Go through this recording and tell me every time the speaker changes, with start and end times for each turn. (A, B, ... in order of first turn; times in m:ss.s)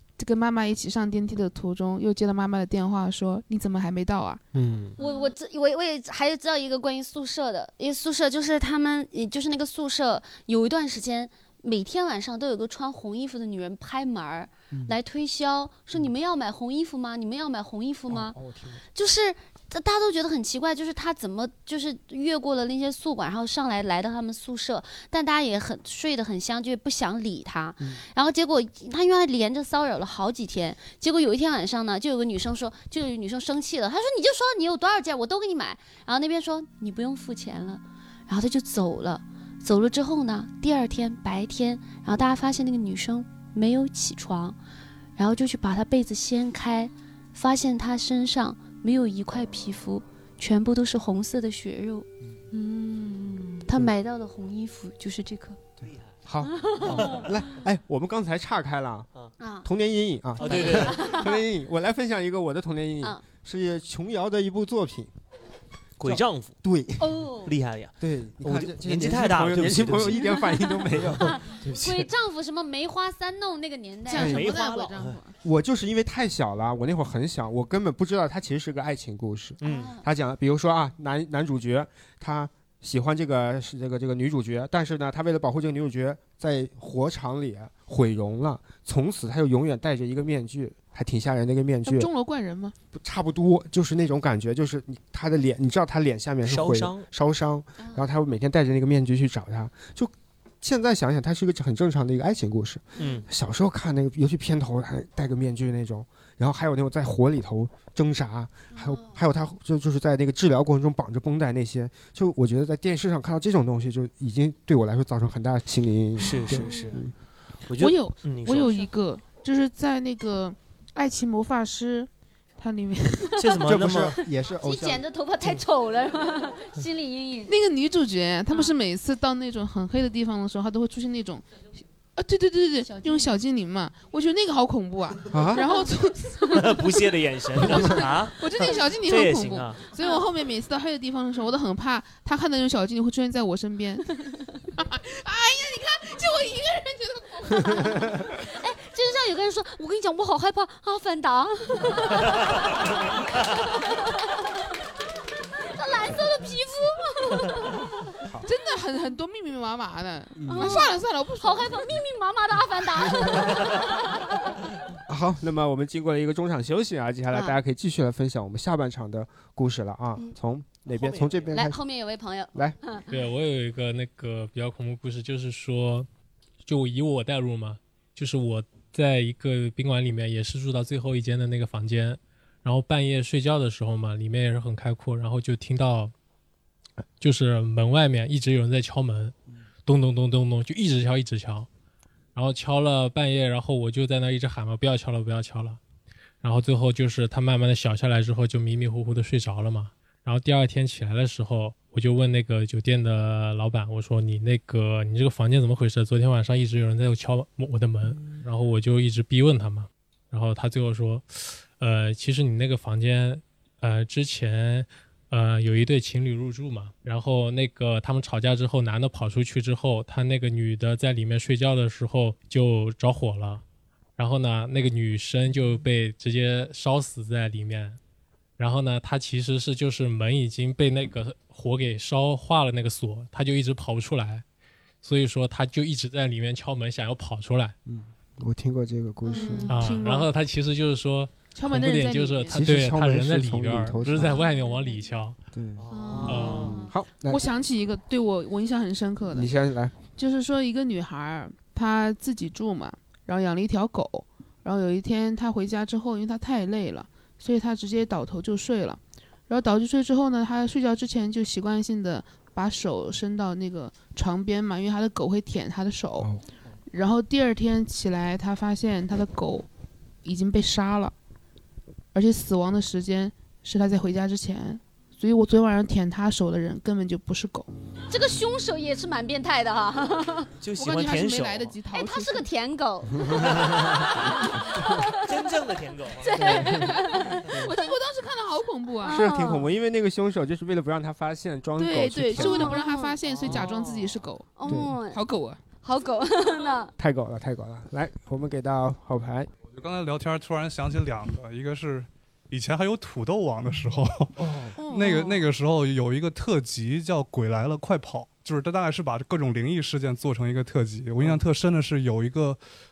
0:00.2-0:04.4 A
0:04.5-0:05.0 B
0:05.0-0:18.4 C
0:14.7-0:15.0 B
0:18.1-0:18.8 B
0:18.9-0:44.6 C
0:45.2-0:55.6 C
0:53.7-0:54.0 B
0:55.8-0:59.1 B
0:55.8-0:56.1 D
0:56.6-0:57.3 C
0:56.9-0:57.3 D
0:59.4-0:59.7 C
0:59.6-1:05.1 B
1:00.4-1:01.4 C
1:00.4-1:01.1 D
1:06.0-1:06.6 D
1:06.0-1:07.2 B
1:07.0-1:07.5 C
1:07.4-1:10.3 D
1:08.0-1:12.0 B
1:10.2-1:14.5 C
1:14.1-1:15.4 A
1:14.2-1:14.4 B
1:14.2-1:15.2 D
1:15.4-1:32.1 B
1:19.6-1:19.9 D
1:19.6-1:20.0 C
1:31.8-1:32.7 A
1:32.9-1:57.1 B
1:36.4-1:37.0 D
1:37.8-1:38.0 C
1:43.0-1:43.3 D
1:48.7-1:49.1 C
1:56.2-1:57.0 D
1:57.7-1:58.9 D
1:57.8-2:03.4 A
2:03.4-2:04.2 D
2:03.6-2:05.6 B
2:04.6-2:07.6 C
2:07.5-2:11.5 A
2:12.2-2:16.9 A
2:12.8-2:13.3 C
2:15.3-2:15.6 B
2:16.5-2:19.8 D
2:17.6-2:24.1 A
2:24.8-2:28.1 A
2:27.8-2:34.4 C
2:35.6-2:37.9 C
2:38.4-2:41.9 A
2:40.3-2:40.8 B
2:40.5-2:44.4 C
2:45.1-2:51.8 B
2:47.3-2:47.6 C
2:50.9-2:51.5 D
2:51.5-2:53.1 C
2:53.1-2:56.1 E
2:56.6-3:06.1 E
3:07.2-3:09.3 E
3:09.8-3:11.7 E
3:12.3-3:15.8 E
3:16.4-3:43.6 E
3:44.2-3:48.0 E
3:48.6-3:54.4 E
3:55.0-3:57.7 E
3:57.8-3:59.7 B
3:59.2-3:59.8 C
3:59.3-4:00.3 A
3:59.7-4:05.4 E
4:01.5-4:02.7 A
4:02.5-4:04.4 B
4:04.3-4:04.8 C
4:05.5-4:07.4 B
4:05.8-4:06.8 D
4:05.9-4:06.9 C
4:06.2-4:06.7 E
4:07.3-4:09.5 A
4:09.3-4:10.0 B
4:10.2-4:26.3 A
4:26.9-4:29.7 A
4:30.2-4:31.1 A
4:32.1-4:37.7 A
4:38.1-4:40.5 C
4:40.6-4:41.7 D
4:40.7-4:42.5 A
4:41.9-4:45.2 C
4:43.2-4:43.6 B
4:43.6-4:43.9 D
4:45.2-4:46.4 D
4:46.2-4:48.0 C
4:46.4-4:47.7 B
4:46.6-4:49.2 A
4:49.0-4:49.7 C
4:49.0-4:52.8 B
4:51.8-4:55.6 A
4:52.4-4:53.6 C
4:53.4-4:54.2 D
4:54.6-4:55.2 C
4:54.6-4:55.0 B
4:55.8-4:56.9 C
4:57.0-4:59.5 B
4:59.7-5:12.6 F
5:04.4-5:04.8 B
5:04.8-5:05.4 C